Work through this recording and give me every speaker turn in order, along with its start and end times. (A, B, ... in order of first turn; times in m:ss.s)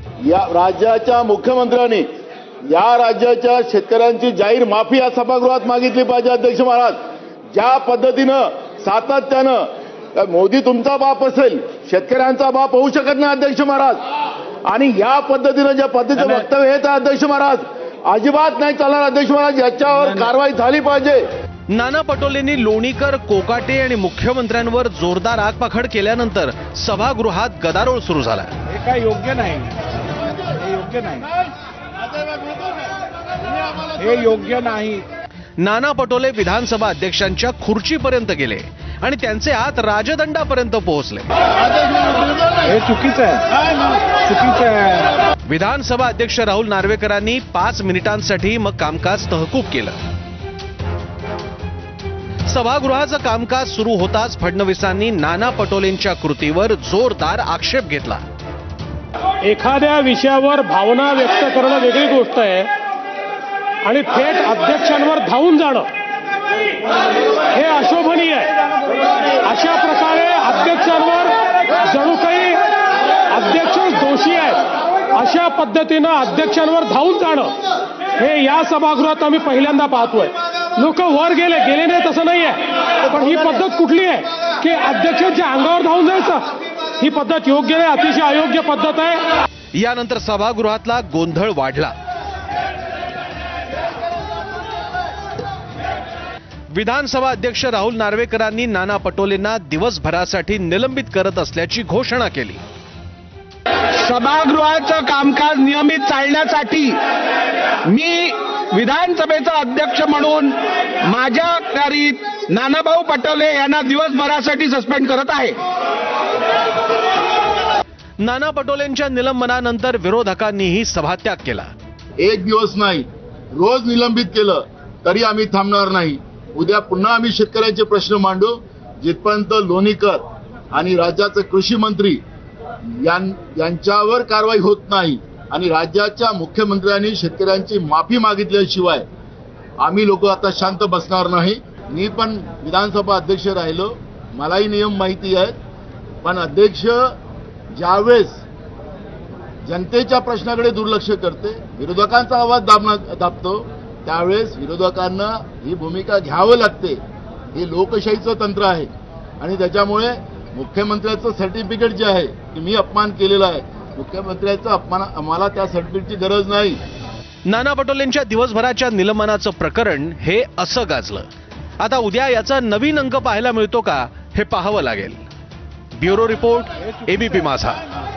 0:00.2-0:02.0 A
0:02.7-0:07.0 A
0:07.5-0:14.0 A
0:14.7-0:21.2 A
0:21.7-0:28.5 B
0:28.7-0:29.8 C
0:30.4-0:31.3 C
0:33.8-0:35.0 C
0:35.6-0:41.3 B
0:42.0-0:42.5 A
0:42.6-0:45.1 C
0:45.5-0:50.0 B
0:52.4-0:58.2 B
0:59.4-1:02.7 D
1:03.8-1:05.9 D
1:07.5-1:08.6 D
1:09.4-1:12.6 D
1:13.3-1:17.5 D
1:18.2-1:29.2 D
1:29.8-1:31.9 B
1:36.7-1:42.6 B
1:44.0-1:47.0 E
1:47.9-1:55.6 E
1:58.2-2:01.7 B
2:02.2-2:12.2 A
2:12.9-2:19.0 A
2:19.8-2:25.6 A
2:26.2-2:27.2 A
2:27.7-2:28.4 A
2:29.6-2:37.0 A
2:37.5-2:46.8 A
2:47.5-2:51.3 B
2:51.8-2:55.2 B
2:56.0-2:57.8 B